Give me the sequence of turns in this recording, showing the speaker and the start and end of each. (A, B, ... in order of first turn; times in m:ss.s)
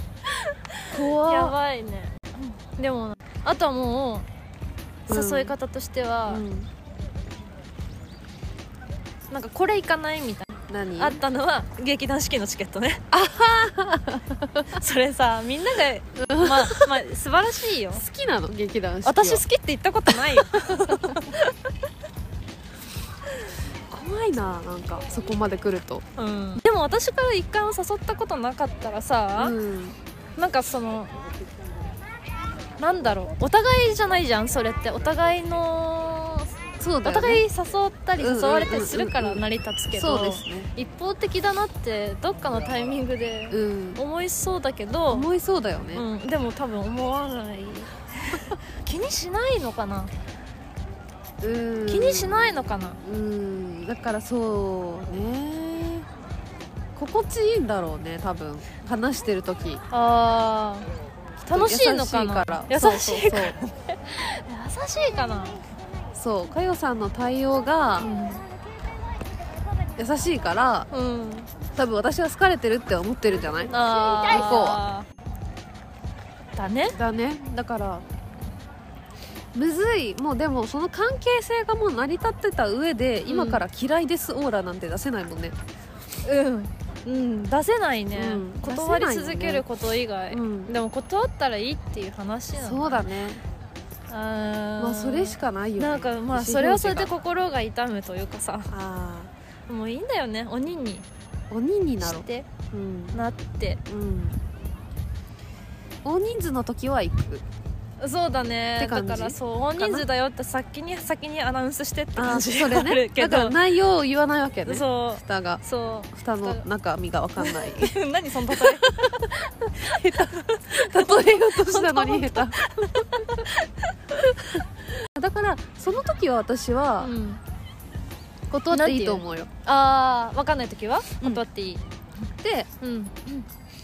0:00.3-0:04.2 A
0:00.9-0:01.6 B
0:05.1-0:05.5 B
0:05.1-0:06.4 A
0:06.3-0:06.7 B
0:09.3-0:13.0 A
0:10.7-0:11.2 B
0:13.1-0:14.8 B
0:14.7-0:18.0 A
0:16.2-0:17.0 B
0:17.9-0:19.4 B
0:19.0-0:21.5 A
0:20.1-0:21.2 B
0:23.9-0:26.0 B
0:26.2-0:29.6 A
0:29.4-0:30.0 B
0:30.4-0:31.1 A
0:32.8-0:36.5 A
0:36.8-0:37.4 B
0:37.0-0:45.3 A
0:38.2-0:40.7 B
0:43.5-0:44.0 B
0:45.1-0:46.0 B
0:45.9-0:50.1 A
0:51.4-0:56.1 B
0:51.9-0:53.0 A
0:57.0-0:59.8 B
0:59.9-1:00.9 A
1:01.4-1:03.6 B
1:01.4-1:05.6 A
1:06.1-1:08.1 B
1:08.0-1:08.4 A
1:10.0-1:10.9 B
1:10.9-1:11.5 A
1:11.7-1:14.8 B
1:13.7-1:15.0 A
1:16.6-1:17.0 A
1:16.9-1:18.0 B
1:19.5-1:25.6 B
1:23.2-1:23.6 A
1:26.2-1:33.0 A
1:28.1-1:29.6 B
1:30.3-1:30.7 B
1:32.6-1:33.4 B
1:34.1-1:38.7 A
1:34.8-1:37.1 B
1:38.7-1:39.3 B
1:39.7-1:41.0 A
1:41.5-1:43.2 B
1:42.0-1:42.5 A
1:43.1-1:43.8 A
1:43.9-1:44.4 B
1:46.0-1:47.4 B
1:48.0-1:53.6 A
1:48.8-1:50.0 B
1:52.1-1:55.6 B
1:54.6-1:56.6 A
1:56.1-2:03.5 B
1:57.4-2:03.9 A
2:04.1-2:07.1 B
2:07.0-2:07.4 A
2:08.5-2:09.5 B
2:08.7-2:11.8 A
2:12.4-2:12.7 B
2:12.8-2:13.5 A